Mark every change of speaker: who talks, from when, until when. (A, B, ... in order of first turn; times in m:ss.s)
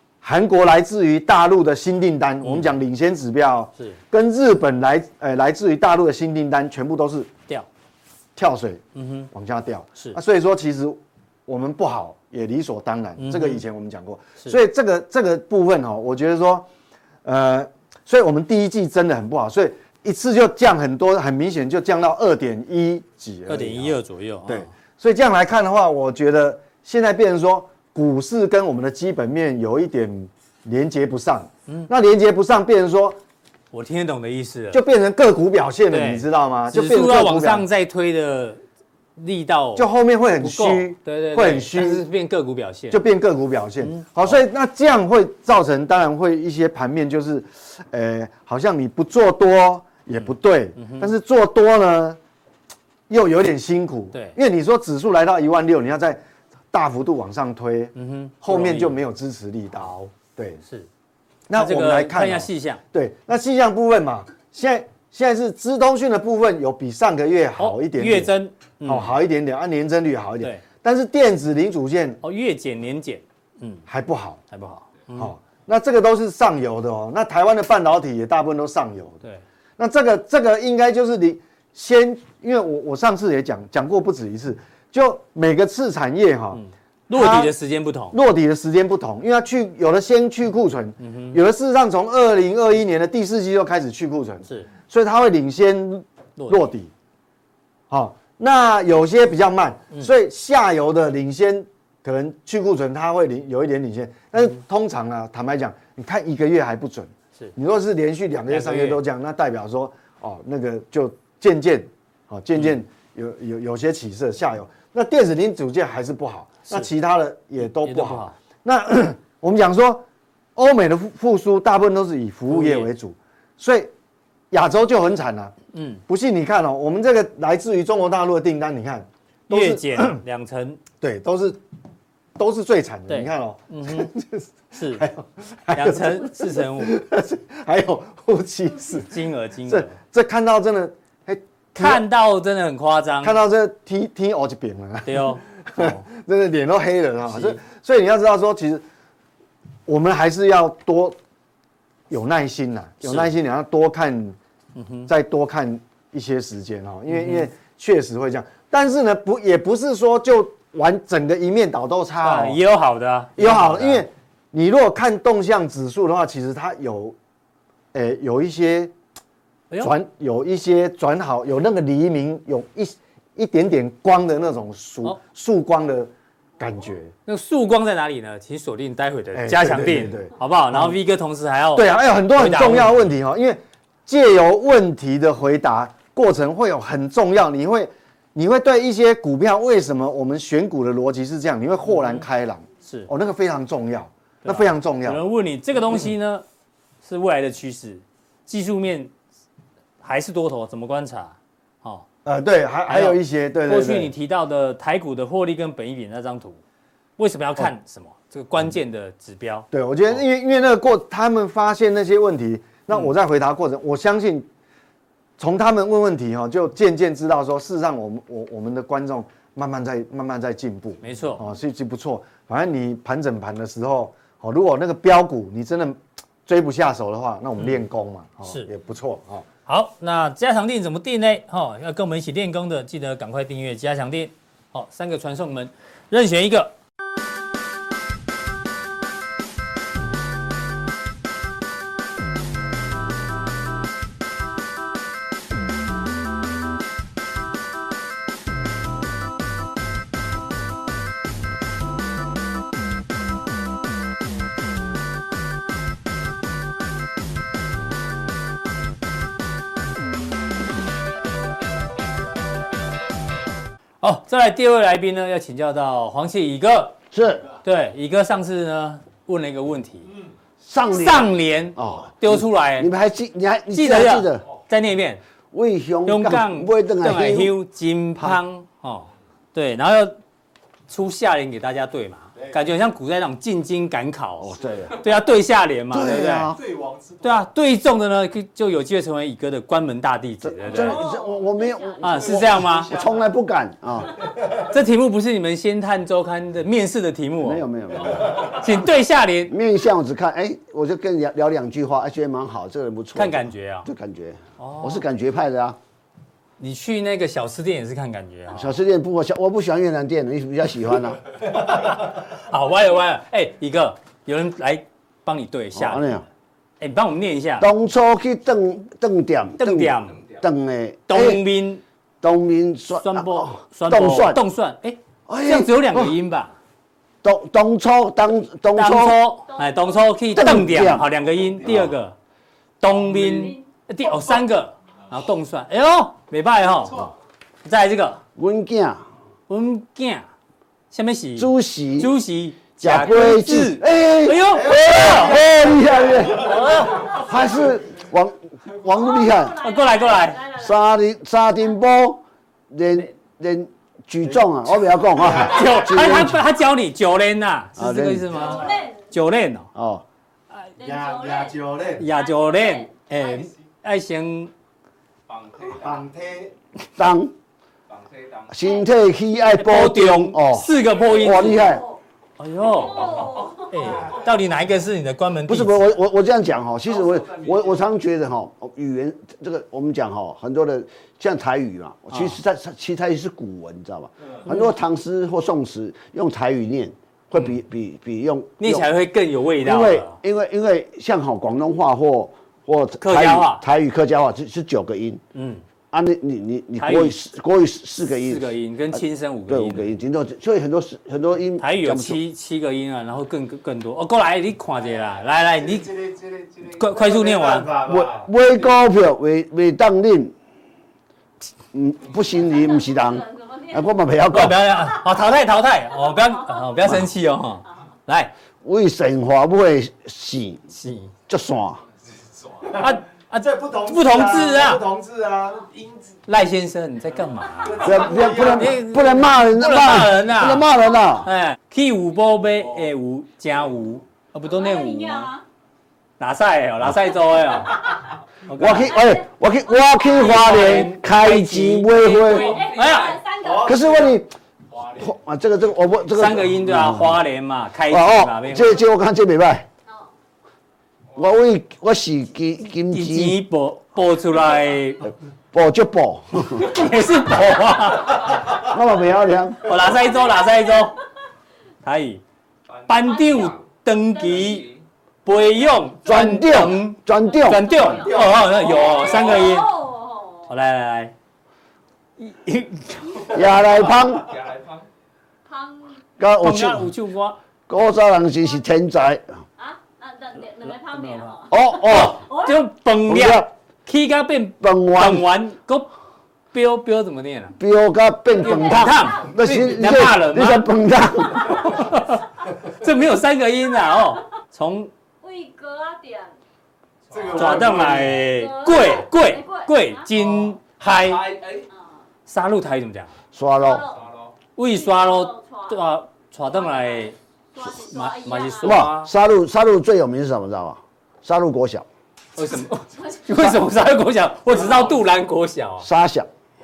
0:00.2-0:07.3 A
0:02.4-0:02.7 B
0:08.4-0:16.7 A
0:08.9-0:09.3 B
0:13.2-0:13.6 B
0:17.2-0:33.2 A
0:23.5-0:24.7 B
0:33.7-0:34.8 B
0:34.7-0:37.6 A
0:35.9-0:38.6 B
0:39.2-0:43.0 B
0:39.8-0:42.0 A
0:42.9-0:52.2 A
0:43.8-0:44.4 B
0:50.2-0:51.1 B
0:53.1-0:56.2 A
0:56.7-1:00.6 A
0:57.9-0:59.0 B
0:59.7-1:00.1 B
1:01.5-1:08.3 A
1:01.6-1:02.8 B
1:07.6-1:09.1 B
1:08.8-1:12.2 A
1:12.2-1:13.8 B
1:13.9-1:14.4 A
1:14.5-1:15.3 B
1:15.1-1:19.2 A
1:19.8-1:26.6 A
1:26.5-1:28.2 B
1:27.1-1:27.5 A
1:28.1-1:36.9 A
1:31.0-1:31.4 B
1:36.4-1:36.6 B
1:37.9-2:00.0 A
1:48.5-1:49.0 B
1:57.6-1:58.4 B
2:00.6-2:03.9 A
2:02.5-2:02.9 B
2:04.5-2:05.5 A
2:05.7-2:06.0 B
2:06.1-2:10.2 A
2:09.5-2:10.8 B
2:11.0-2:11.6 A
2:12.4-2:22.0 A
2:13.1-2:14.1 B
2:14.7-2:15.0 B
2:15.7-2:16.9 B
2:19.0-2:20.0 B
2:21.8-2:23.4 B
2:23.2-2:28.8 A
2:25.0-2:26.0 B
2:27.3-2:27.6 B
2:29.9-2:31.2 A
2:32.1-2:34.4 A
2:33.0-2:33.3 B
2:34.7-2:35.1 B
2:35.1-2:42.6 A
2:37.1-2:37.5 B
2:42.2-2:44.0 B
2:43.4-2:47.2 A
2:47.9-2:48.9 A
2:49.8-2:57.1 A
2:57.2-3:03.1 B
2:59.3-3:01.0 A
3:01.7-3:15.2 A
3:11.9-3:12.2 B
3:14.4-3:16.4 B
3:17.0-3:19.1 B
3:20.0-3:22.0 B
3:22.2-3:24.1 A
3:22.9-3:26.6 B
3:27.2-3:30.2 B
3:29.7-3:34.5 A
3:35.4-3:49.5 A
3:41.0-3:41.4 B
3:49.6-3:56.7 B
4:24.0-4:27.0 B
4:27.1-4:27.5 C
4:27.6-4:30.1 B
4:30.6-4:34.4 C
4:30.9-4:32.9 B
4:33.7-4:35.2 B
4:35.5-4:37.5 C
4:36.0-4:40.2 B
4:40.9-4:46.5 B
4:44.4-4:45.0 C
4:45.9-4:46.6 C
4:46.5-4:47.4 D
4:47.2-4:51.0 B
4:50.4-4:54.2 C
4:50.7-4:52.4 E
4:52.0-4:52.9 B
4:52.1-4:53.2 D
4:54.6-4:57.6 B
4:57.4-4:58.6 C
4:58.4-4:59.5 B
4:59.5-5:05.8 C
5:03.1-5:03.9 B
5:04.6-5:05.0 B
5:06.6-5:08.7 B
5:08.5-5:11.2 C
5:11.8-5:16.1 B
5:15.7-5:16.2 C
5:16.8-5:17.7 B
5:17.6-5:21.4 C
5:19.6-5:20.2 B
5:21.1-5:21.8 B
5:22.2-5:24.4 C
5:23.0-5:26.6 B
5:25.3-5:26.1 C
5:27.2-5:29.2 C
5:28.7-5:32.2 B
5:29.5-5:30.1 E
5:30.3-5:31.1 C
5:31.6-5:31.9 C
5:32.8-5:37.1 B
5:32.9-5:33.5 D
5:33.1-5:33.6 E
5:36.8-5:37.1 D
5:37.6-5:38.2 B
5:38.4-5:39.0 C
5:39.5-5:40.3 B
5:40.9-5:45.5 B
5:41.4-5:42.1 C
5:42.8-5:49.6 C
5:44.5-5:47.8 D
5:46.2-5:47.2 B
5:48.9-5:50.9 E
5:49.6-5:50.4 B
5:50.5-5:56.4 C
5:54.8-5:55.8 D
5:55.4-5:59.7 B
5:57.8-5:58.5 C
5:58.3-5:58.8 D
5:58.3-5:59.1 E
5:59.7-6:00.0 C
6:00.8-6:03.5 E
6:00.8-6:02.0 D
6:02.0-6:04.5 B
6:05.3-6:06.5 D
6:07.0-6:07.3 C
6:07.9-6:08.8 D
6:08.5-6:11.8 C
6:09.4-6:11.7 B
6:10.8-6:12.0 E
6:12.4-6:15.8 B
6:12.7-6:14.2 E
6:12.8-6:14.3 D
6:15.5-6:28.9 C
6:16.8-6:17.9 D
6:22.1-6:22.4 B
6:24.4-6:24.7 B
6:28.6-6:30.2 B
6:29.6-6:35.2 C
6:33.0-6:33.6 B
6:35.3-6:35.6 B
6:35.9-6:42.2 C
6:36.8-6:37.2 B
6:38.0-6:39.9 B
6:41.6-6:45.9 B
6:45.0-6:48.3 D
6:46.6-6:47.7 B
6:47.8-6:50.3 C
6:51.7-6:54.7 C
6:52.2-6:53.9 E
6:54.3-6:58.3 B
6:56.0-6:56.8 E
6:58.6-7:00.6 C
7:00.7-7:01.1 B
7:01.3-7:01.8 C
7:02.3-7:06.2 D
7:02.7-7:04.8 B
7:03.9-7:04.7 A
7:06.3-7:10.7 B
7:07.4-7:08.8 D
7:07.8-7:11.3 C
7:10.8-7:11.2 E
7:11.2-7:15.3 B
7:14.4-7:15.4 E
7:16.2-7:19.0 B
7:18.5-7:22.6 C
7:18.7-7:20.8 E
7:20.0-7:23.2 B
7:22.3-7:23.8 E
7:22.3-7:25.2 D
7:23.6-7:24.3 C
7:25.0-7:27.2 C
7:26.1-7:28.8 B
7:27.9-7:29.6 C
7:31.2-7:33.4 C
7:32.9-7:35.1 B
7:35.5-7:36.8 C
7:36.6-7:38.6 B
7:38.5-7:39.7 C
7:39.6-7:41.0 B
7:40.2-7:41.0 E
7:41.8-7:42.2 B
7:42.7-7:43.6 D
7:42.9-7:44.7 B
7:43.1-7:43.6 E
7:44.1-7:44.8 D
7:44.2-7:44.5 E
7:45.2-7:49.7 B
7:46.0-7:47.6 C
7:47.2-7:50.5 E
7:47.8-7:49.4 D
7:50.5-7:51.1 B
7:52.2-7:53.6 B
7:53.3-7:54.4 C
7:53.5-7:54.8 D
7:55.5-7:56.0 E
7:56.2-7:56.9 C
7:56.4-7:57.4 B
7:57.7-7:59.2 C
7:59.6-8:02.6 E
8:00.8-8:05.9 B
8:01.5-8:02.2 C
8:03.0-8:03.5 C
8:04.6-8:05.3 C
8:06.5-8:07.6 B
8:07.6-8:11.9 C
8:08.3-8:09.3 E
8:08.4-8:10.7 B
8:11.3-8:14.9 B
8:15.2-8:16.3 E
8:17.1-8:18.2 D
8:17.3-8:20.1 E
8:17.3-8:21.3 B
8:20.2-8:21.7 D
8:21.7-8:22.0 E
8:22.3-8:23.2 B
8:23.3-8:23.8 C
8:23.6-8:24.0 E
8:23.8-8:24.3 D
8:24.6-8:29.1 B
8:24.6-8:25.9 E
8:26.5-8:28.9 E
8:28.6-8:31.8 C
8:32.4-8:35.9 B
8:33.0-8:33.5 E
8:35.8-8:36.3 C